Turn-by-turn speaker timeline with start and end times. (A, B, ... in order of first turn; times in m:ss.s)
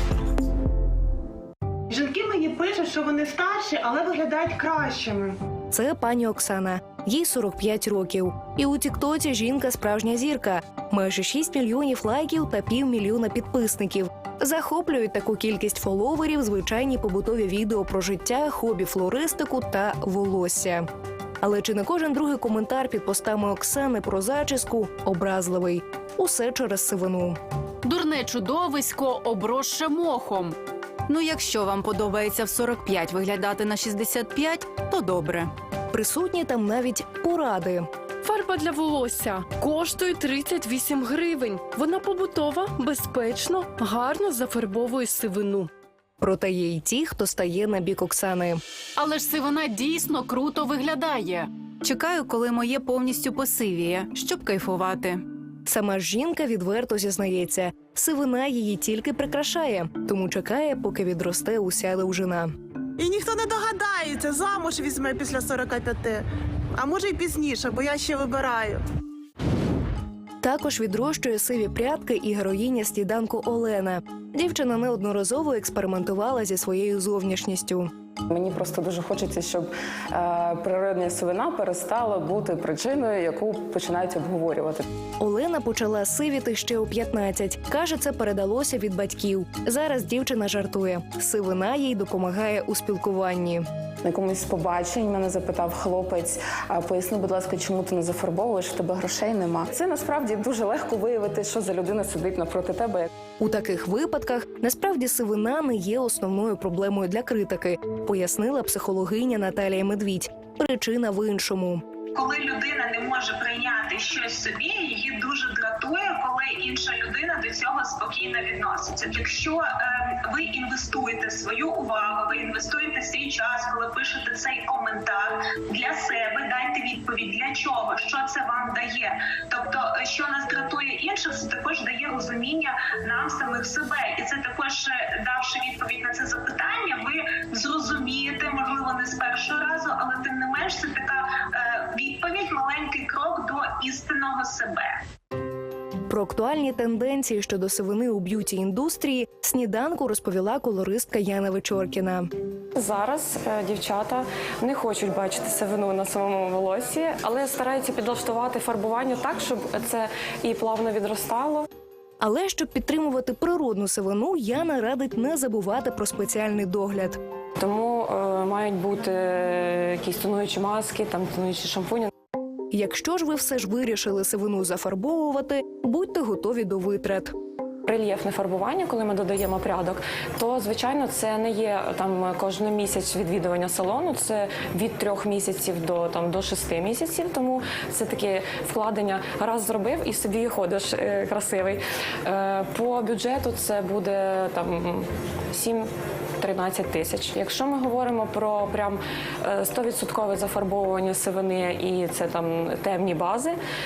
0:01.9-0:05.3 A
0:05.7-0:20.8 B
0:21.4-0:27.4 B
0:27.8-0:35.5 C
0:35.9-0:37.9 B
0:38.2-0:45.7 D
0:46.2-0:48.6 B
0:49.0-0:55.2 C
0:55.7-1:02.5 B
1:03.0-1:06.2 A
1:06.8-1:08.8 A
1:10.4-1:17.9 B
1:18.3-1:24.9 E
1:25.2-1:33.6 B
1:34.0-1:43.1 E
1:43.4-1:51.8 B
1:52.1-2:25.0 F
2:26.1-2:32.3 B
2:32.7-2:41.7 G
2:42.2-2:47.2 B
2:47.6-2:52.1 G
2:52.7-2:57.3 B
2:57.8-3:15.8 G
3:16.4-3:23.6 G